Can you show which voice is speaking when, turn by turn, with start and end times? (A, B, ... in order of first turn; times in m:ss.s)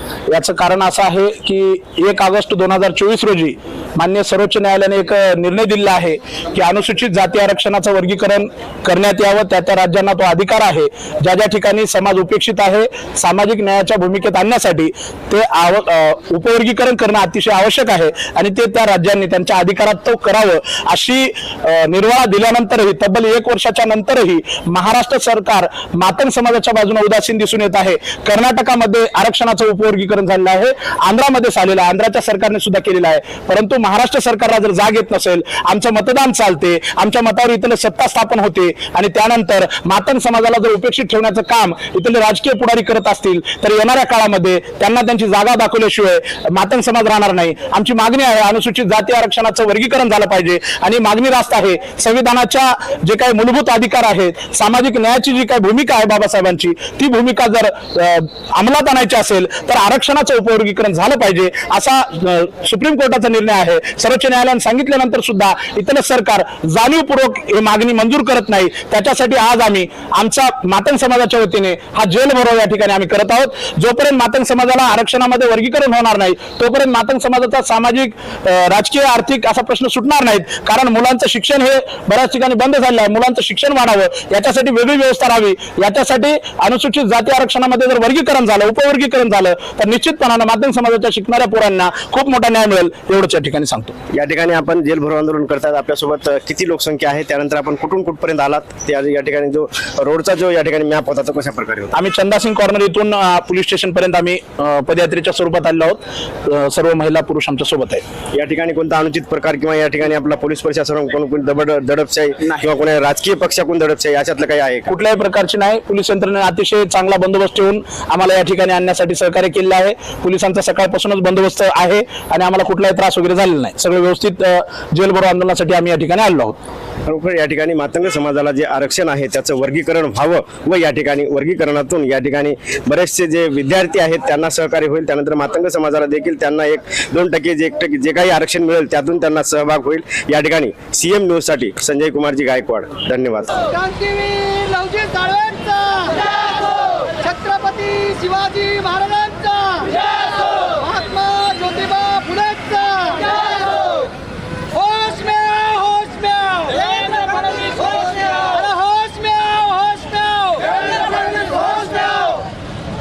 0:00.3-1:34.0 A
1:34.1-1:41.9 B
1:41.9-1:48.0 A
1:48.4-1:54.9 B
1:54.9-2:06.6 A
2:07.1-2:23.7 B
2:23.8-2:34.1 C
2:34.7-2:42.4 C